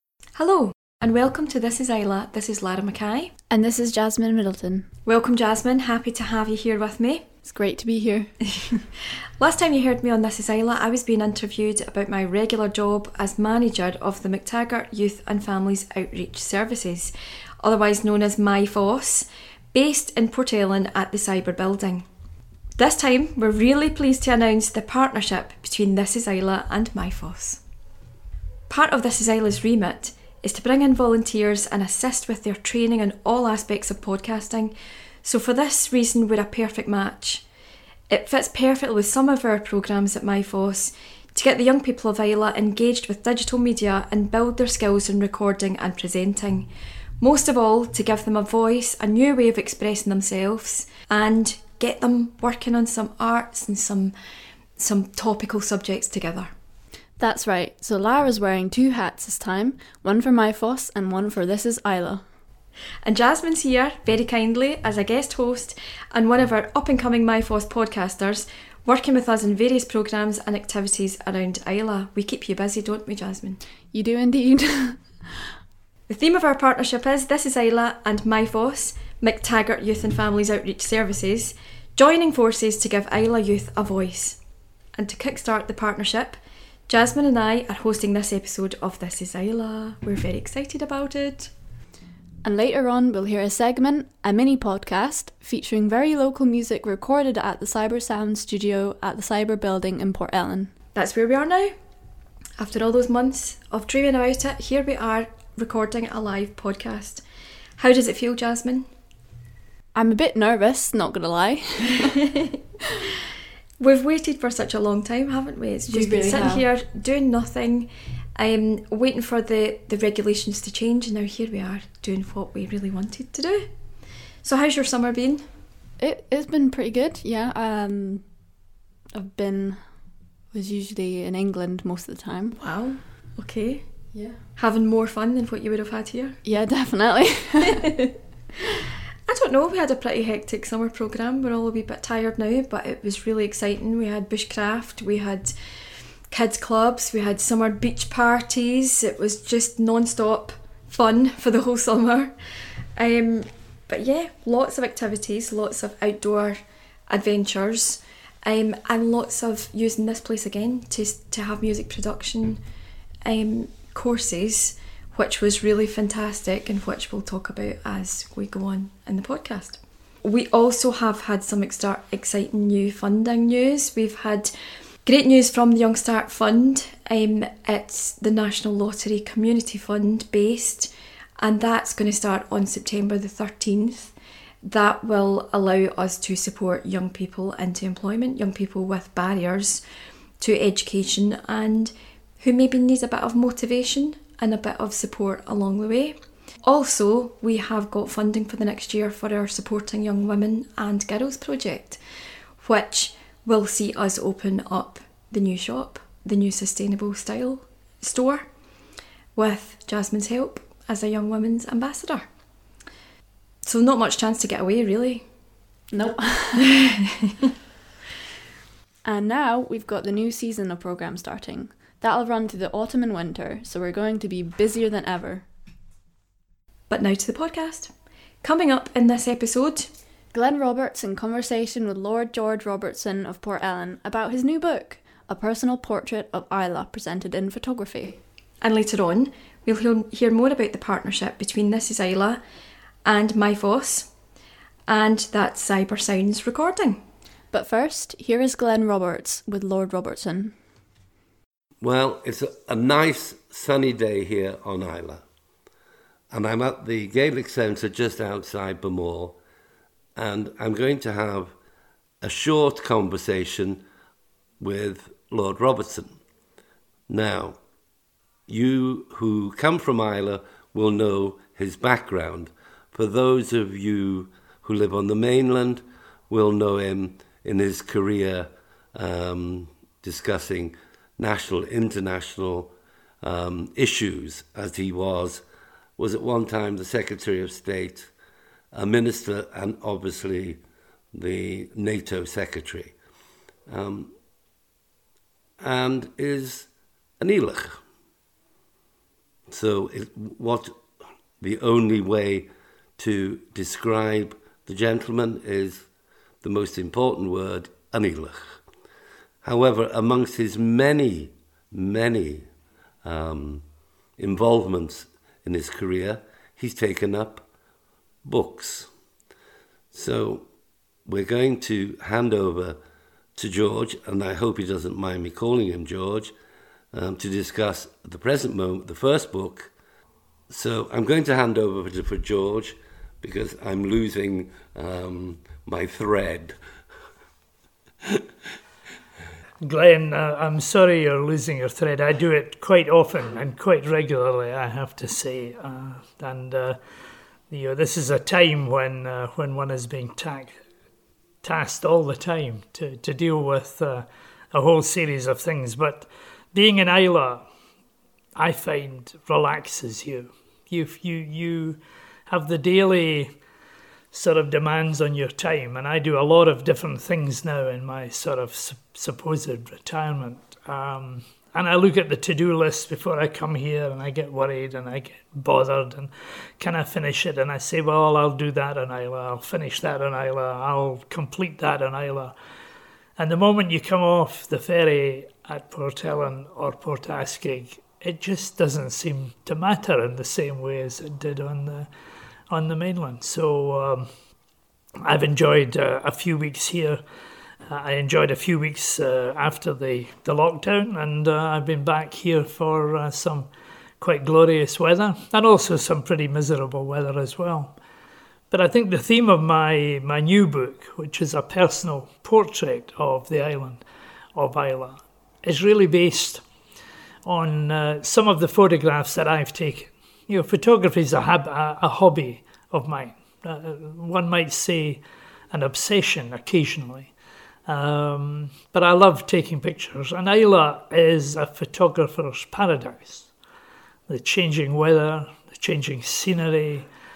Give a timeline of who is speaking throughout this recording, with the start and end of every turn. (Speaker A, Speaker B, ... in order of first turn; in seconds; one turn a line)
Speaker A: 0.4-3.3
Speaker B: 3.5-4.9
Speaker A: 5.1-7.2
Speaker B: 7.5-8.3
Speaker A: 9.4-22.1
Speaker A: 22.8-27.6
Speaker A: 28.7-37.4
Speaker A: 38.1-46.7
Speaker A: 47.2-54.1
Speaker A: 54.8-56.5
Speaker B: 57.2-62.2
Speaker A: 63.0-73.6
Speaker B: 73.9-75.1
Speaker A: 76.1-84.4
Speaker A: 85.0-91.5
Speaker B: 92.4-100.7
Speaker A: 101.0-101.7
Speaker A: 102.6-107.2
Speaker A: 107.8-108.9
Speaker B: 110.0-112.2
Speaker A: 113.8-123.7
Speaker B: 115.9-116.7
Speaker A: 124.4-125.5
Speaker B: 126.0-128.2
Speaker B: 129.1-129.8
Speaker B: 130.5-132.6
Speaker A: 132.6-133.8
Speaker B: 134.1-134.4
Speaker A: 134.6-136.4
Speaker B: 136.4-138.0
Speaker A: 139.3-145.5
Speaker A: 146.3-152.3
Speaker A: 153.0-162.6
Speaker A: 163.2-174.5
Speaker A: 175.1-189.8
Speaker A: 190.4-202.0
Speaker A: 202.6-208.5
Speaker A: 209.3-212.2
Speaker A: 213.6-215.2
Speaker B: 215.9-216.7
Speaker A: 216.6-217.3
Speaker B: 219.1-225.5
Speaker A: 226.9-227.9
Speaker A: 228.4-229.9
Speaker B: 230.3-238.2
Speaker A: 238.6-242.4
Speaker A: 243.1-244.1
Speaker A: 244.9-247.0
Speaker B: 247.5-250.6
Speaker C: 251.8-255.2
Speaker C: 256.3-259.4
Speaker C: 260.2-261.5
Speaker C: 262.2-263.8
Speaker C: 264.6-266.2
Speaker C: 267.1-267.6
Speaker C: 268.5-285.4
Speaker C: 286.0-288.1
Speaker C: 288.7-290.6
Speaker C: 291.1-292.9
Speaker C: 293.7-294.1
Speaker C: 295.6-296.7
Speaker C: 297.2-297.8
Speaker C: 299.5-300.8
Speaker C: 301.4-305.9
Speaker C: 306.4-308.6
Speaker C: 309.4-312.5
Speaker C: 313.0-313.6
Speaker C: 314.2-317.4
Speaker C: 318.2-318.9
Speaker C: 319.9-320.5
Speaker C: 321.1-322.8
Speaker C: 323.4-326.3
Speaker C: 326.9-329.7
Speaker C: 330.5-336.6
Speaker D: 339.6-346.8
Speaker D: 347.5-350.6
Speaker D: 351.4-357.4
Speaker D: 358.4-363.3
Speaker D: 364.1-382.4
Speaker D: 383.2-391.9
Speaker D: 392.5-394.1
Speaker D: 395.0-397.0
Speaker D: 397.7-403.5
Speaker D: 404.0-407.8
Speaker D: 408.5-413.8
Speaker D: 414.4-416.4
Speaker D: 417.2-427.1
Speaker D: 427.7-433.3
Speaker D: 434.1-436.9